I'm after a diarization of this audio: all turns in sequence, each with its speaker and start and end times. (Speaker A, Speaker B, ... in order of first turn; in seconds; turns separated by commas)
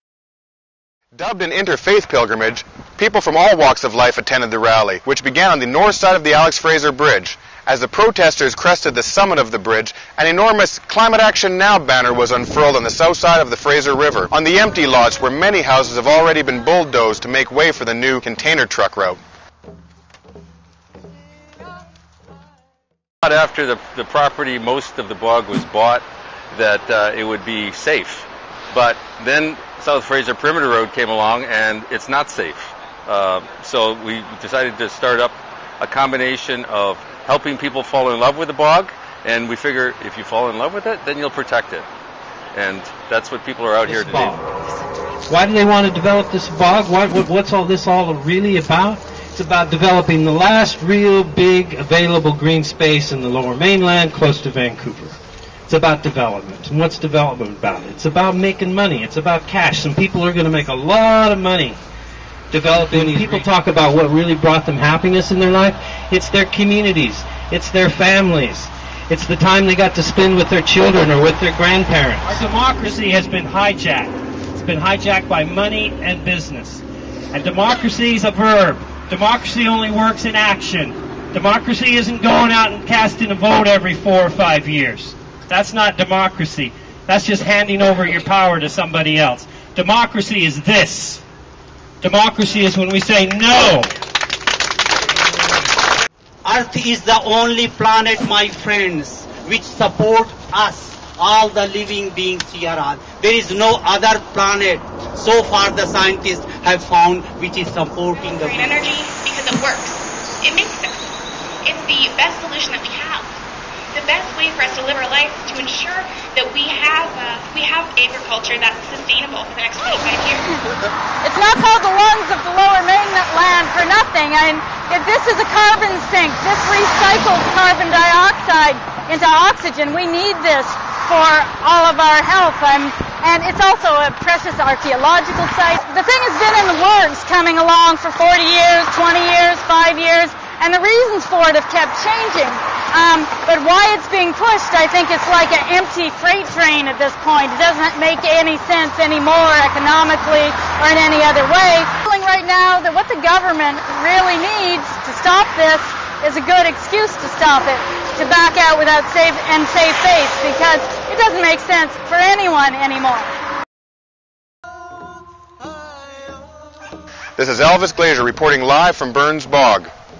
Speaker A: 1.1-19.2, Speaker B: 23.2-41.9, Speaker B: 42.5-44.4, Speaker C: 43.9-44.3, Speaker C: 45.3-61.8, Speaker C: 62.5-76.8, Speaker B: 62.8-63.4, Speaker C: 77.3-91.2, Speaker C: 92.0-93.9, Speaker D: 96.4-108.7, Speaker E: 108.1-113.4, Speaker E: 113.9-120.6, Speaker F: 121.2-163.3, Speaker A: 167.4-169.9